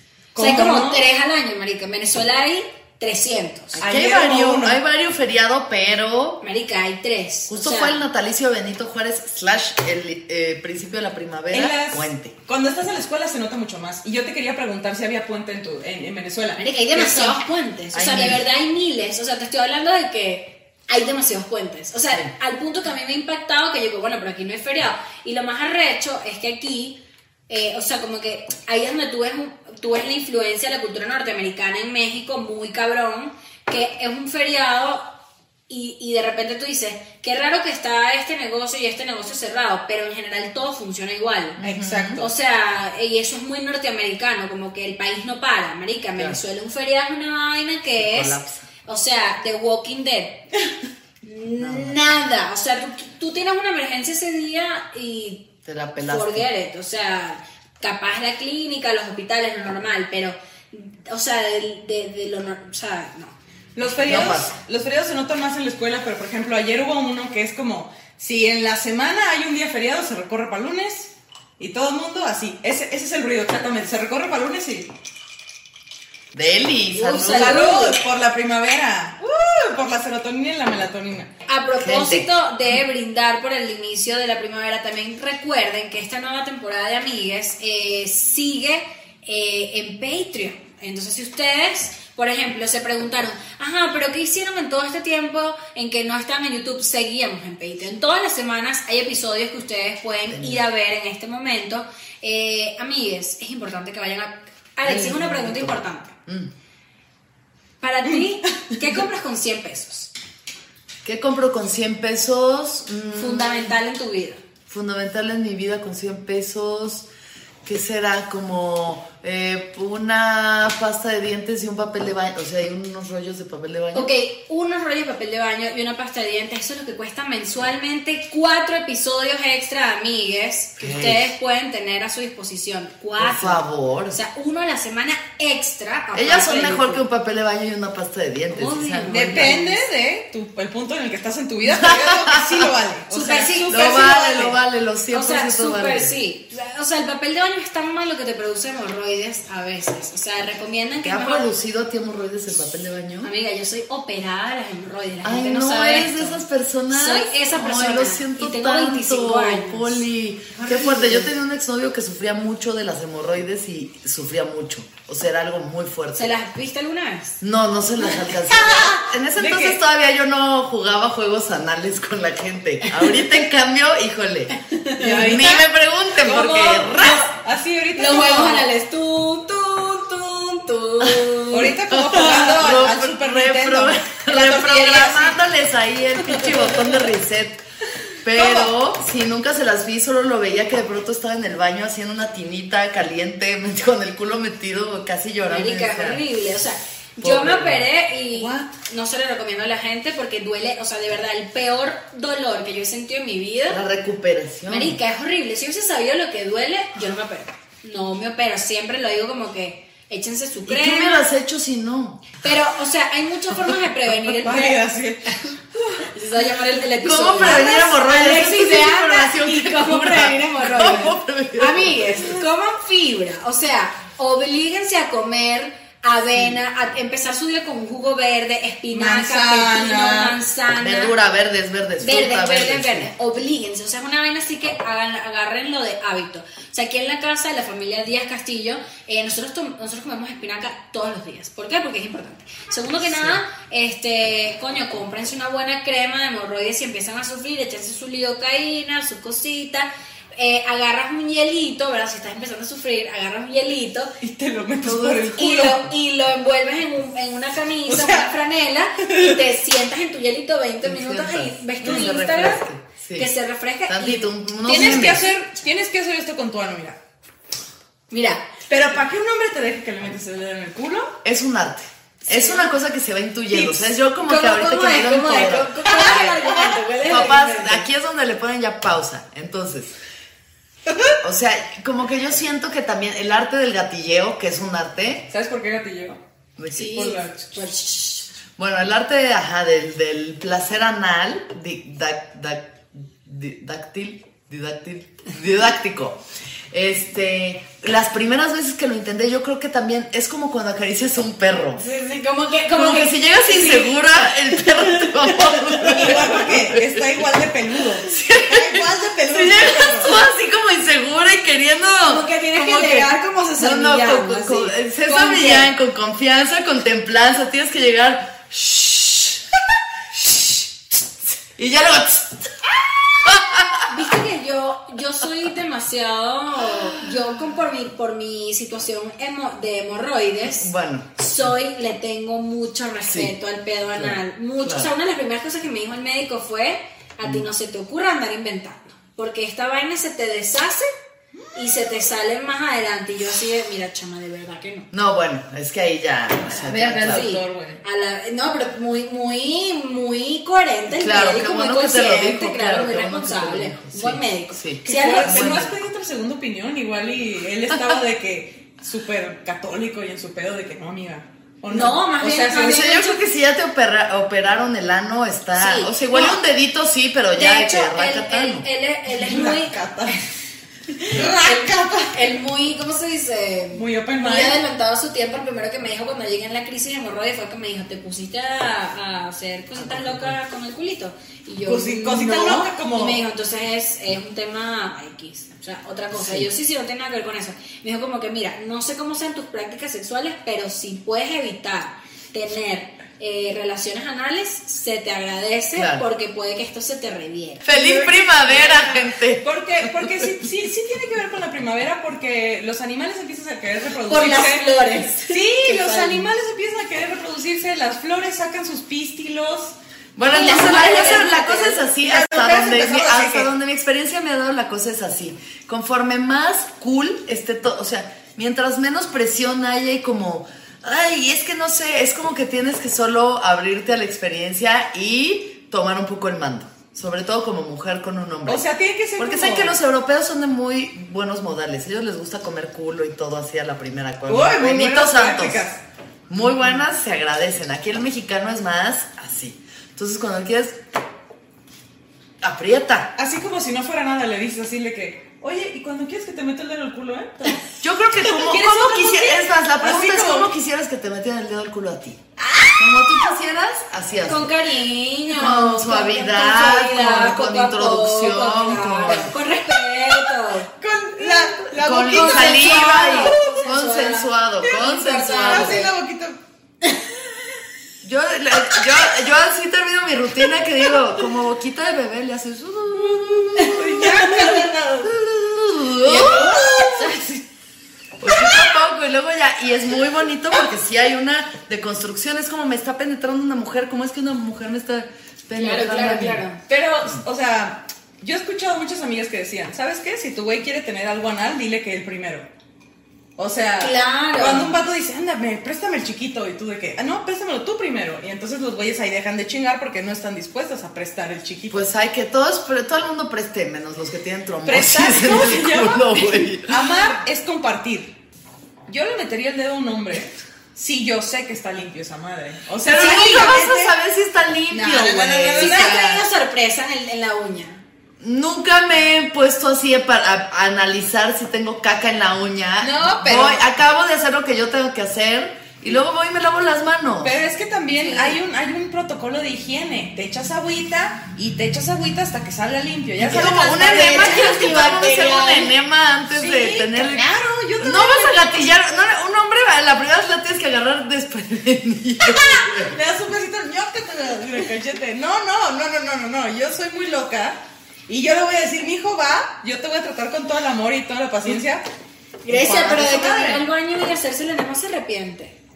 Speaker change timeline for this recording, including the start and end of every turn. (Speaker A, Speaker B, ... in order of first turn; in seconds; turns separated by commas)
Speaker A: 0.3-1.1, Speaker B: 0.4-3.8, Speaker C: 3.7-6.4, Speaker A: 3.8-4.8, Speaker B: 6.4-8.0, Speaker C: 7.5-12.4, Speaker A: 11.5-17.4, Speaker B: 16.6-35.1, Speaker C: 17.9-18.4, Speaker B: 35.7-41.6, Speaker C: 41.6-42.2, Speaker A: 41.6-42.2, Speaker B: 42.2-50.5, Speaker C: 48.0-48.7, Speaker B: 51.2-55.5, Speaker C: 51.6-52.0, Speaker C: 55.6-56.5, Speaker B: 56.0-63.4, Speaker A: 63.8-74.9, Speaker B: 63.9-64.2, Speaker C: 64.0-64.5, Speaker C: 76.3-77.6, Speaker B: 76.9-78.0, Speaker A: 77.3-81.3, Speaker B: 81.5-106.2, Speaker C: 81.8-82.3, Speaker C: 100.3-100.6, Speaker C: 104.8-106.5, Speaker B: 107.8-110.1, Speaker C: 111.0-113.8, Speaker B: 113.2-114.4, Speaker C: 114.7-117.1, Speaker C: 117.7-124.1, Speaker B: 123.9-137.0, Speaker C: 130.8-131.3, Speaker C: 133.2-134.2, Speaker C: 136.2-139.6, Speaker B: 138.5-139.8, Speaker A: 139.1-144.6, Speaker C: 141.6-142.7, Speaker B: 143.1-144.3, Speaker C: 143.7-146.2, Speaker B: 145.1-151.5, Speaker C: 151.0-153.3, Speaker B: 153.2-161.3, Speaker C: 155.2-166.3, Speaker B: 166.2-167.4, Speaker C: 167.4-177.3, Speaker A: 168.6-169.8, Speaker B: 174.6-175.6, Speaker A: 175.1-175.5, Speaker B: 176.2-177.3, Speaker A: 176.9-178.7, Speaker B: 178.0-182.5, Speaker C: 181.0-181.3, Speaker A: 181.5-185.3, Speaker C: 181.9-187.6, Speaker B: 184.5-185.3, Speaker C: 188.2-196.2, Speaker A: 188.4-188.7, Speaker B: 195.5-203.8, Speaker C: 197.2-197.8, Speaker A: 198.3-198.7, Speaker C: 203.7-205.0, Speaker B: 204.7-211.3, Speaker C: 210.7-212.4, Speaker B: 212.4-214.8, Speaker A: 214.2-216.1, Speaker B: 216.0-231.2, Speaker C: 217.0-222.2, Speaker A: 228.9-230.4, Speaker C: 230.8-233.1, Speaker B: 232.0-254.2, Speaker C: 243.0-243.4, Speaker A: 254.2-255.9, Speaker C: 254.8-255.3, Speaker B: 255.3-262.6, Speaker A: 257.9-258.3, Speaker A: 259.0-259.4, Speaker C: 260.8-263.3, Speaker A: 261.8-262.1, Speaker B: 263.2-265.2, Speaker C: 263.9-265.2, Speaker A: 264.7-267.0, Speaker B: 268.1-268.5, Speaker A: 268.7-271.2, Speaker C: 271.2-279.9, Speaker B: 272.2-272.7, Speaker B: 274.2-277.9, Speaker A: 275.9-276.7, Speaker A: 280.9-281.2, Speaker C: 281.2-285.3, Speaker A: 285.3-286.2, Speaker C: 286.6-287.1, Speaker B: 286.7-288.3, Speaker A: 286.9-287.5, Speaker C: 288.6-296.2, Speaker C: 296.7-301.9, Speaker B: 301.8-306.5, Speaker C: 302.7-307.1, Speaker A: 305.8-310.2, Speaker C: 308.1-319.5, Speaker B: 312.1-315.7, Speaker C: 320.1-320.7, Speaker C: 321.6-323.9, Speaker B: 323.9-340.9, Speaker C: 326.7-327.2, Speaker C: 330.5-331.1, Speaker C: 333.1-333.3, Speaker C: 333.9-334.9, Speaker B: 341.5-344.9, Speaker C: 344.9-347.3, Speaker A: 346.5-347.8, Speaker B: 347.1-355.7, Speaker C: 351.0-355.8, Speaker A: 354.9-362.8, Speaker B: 361.7-363.2, Speaker C: 362.6-368.7, Speaker B: 365.6-366.4, Speaker B: 367.4-370.1, Speaker A: 369.1-370.2, Speaker B: 371.0-397.7, Speaker A: 371.0-372.2, Speaker A: 373.7-374.6, Speaker C: 379.8-380.4, Speaker A: 381.7-383.2, Speaker C: 386.1-386.5, Speaker C: 395.8-396.0, Speaker C: 397.6-400.3, Speaker A: 397.7-409.8, Speaker B: 404.1-406.3, Speaker C: 410.2-428.6, Speaker B: 410.3-411.9, Speaker A: 410.4-411.2, Speaker A: 411.9-413.5, Speaker A: 428.5-429.8, Speaker C: 429.2-435.7, Speaker A: 434.3-435.8, Speaker C: 436.3-440.8, Speaker C: 442.4-443.1, Speaker A: 443.2-447.6, Speaker C: 447.8-452.2, Speaker A: 448.3-450.5, Speaker A: 452.4-453.0, Speaker C: 452.8-454.5, Speaker B: 454.3-465.9, Speaker C: 455.3-459.3, Speaker A: 460.1-463.7, Speaker C: 461.7-465.8, Speaker A: 464.6-464.9, Speaker A: 465.4-466.4, Speaker C: 468.0-474.2, Speaker A: 473.0-475.1, Speaker B: 473.6-474.6, Speaker C: 475.0-477.1, Speaker A: 476.1-477.2, Speaker B: 476.1-477.3, Speaker C: 478.2-486.4, Speaker B: 485.6-486.6, Speaker A: 486.7-492.5, Speaker A: 493.4-501.8, Speaker B: 493.8-494.8, Speaker C: 501.7-506.9, Speaker A: 504.6-508.1, Speaker A: 508.9-514.0, Speaker C: 512.9-516.2, Speaker B: 512.9-513.6, Speaker A: 514.7-516.1, Speaker B: 515.6-517.8, Speaker C: 518.2-527.4, Speaker A: 522.8-523.6, Speaker A: 527.2-535.1, Speaker B: 528.0-528.4, Speaker C: 533.2-543.0, Speaker B: 533.4-535.7, Speaker A: 536.3-538.8, Speaker A: 542.2-551.8, Speaker B: 552.4-555.6, Speaker A: 552.5-553.6